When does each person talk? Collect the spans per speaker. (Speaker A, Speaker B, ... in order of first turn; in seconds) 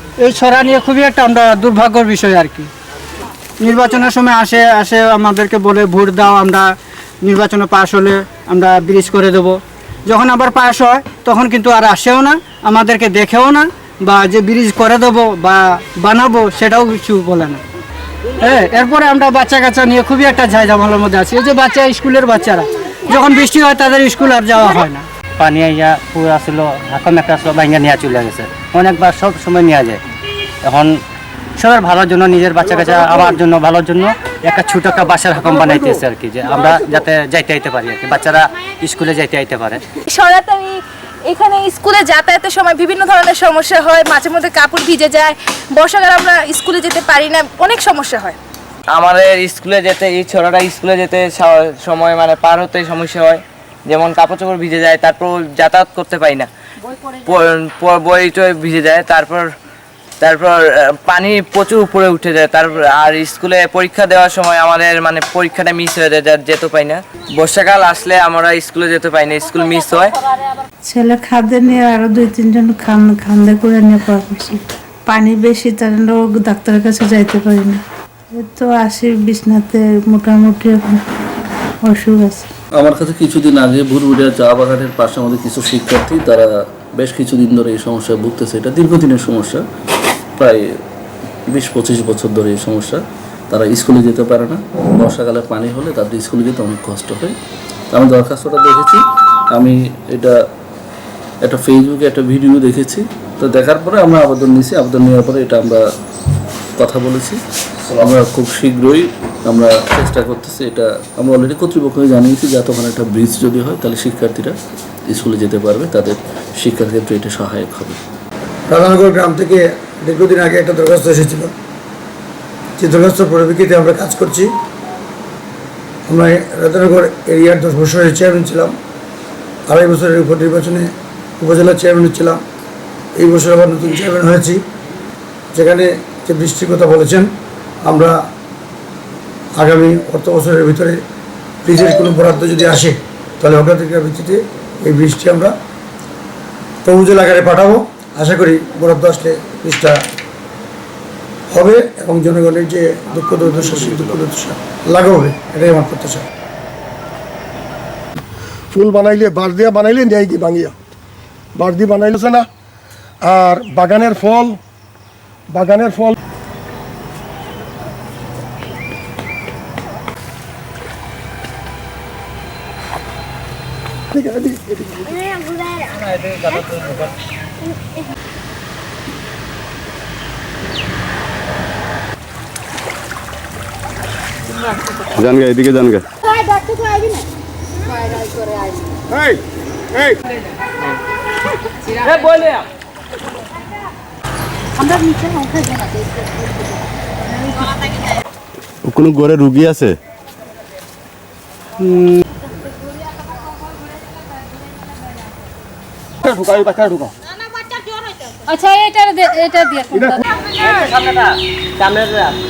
Speaker A: 0.2-2.7, 3.6-6.7, 7.2-17.6, 18.4-25.1, 201.8-202.2
Speaker B: 25.4-30.0, 30.6-31.0, 31.6-39.9
Speaker C: 40.1-48.4, 208.6-210.0
Speaker D: 48.9-56.5, 57.2-59.5, 60.2-70.2, 192.0-192.6
Speaker E: 70.9-77.8, 78.3-81.0, 81.8-82.5
Speaker F: 82.8-89.6, 91.5-93.0, 93.5-97.3, 97.9-99.0, 99.5-100.3, 101.4-105.8, 106.8-114.5, 115.1-118.0
Speaker G: 118.7-121.5, 122.8-124.5, 126.1-128.8, 129.7-130.9, 131.4-132.4, 133.2-134.6, 135.5-137.3, 137.8-138.2, 139.6-141.0, 141.6-145.5, 146.8-150.0, 151.5-156.2
Speaker H: 158.7-160.7, 161.6-162.5, 163.2-164.6, 165.5-166.2, 174.1-175.2
Speaker I: 185.2-186.0, 198.8-200.0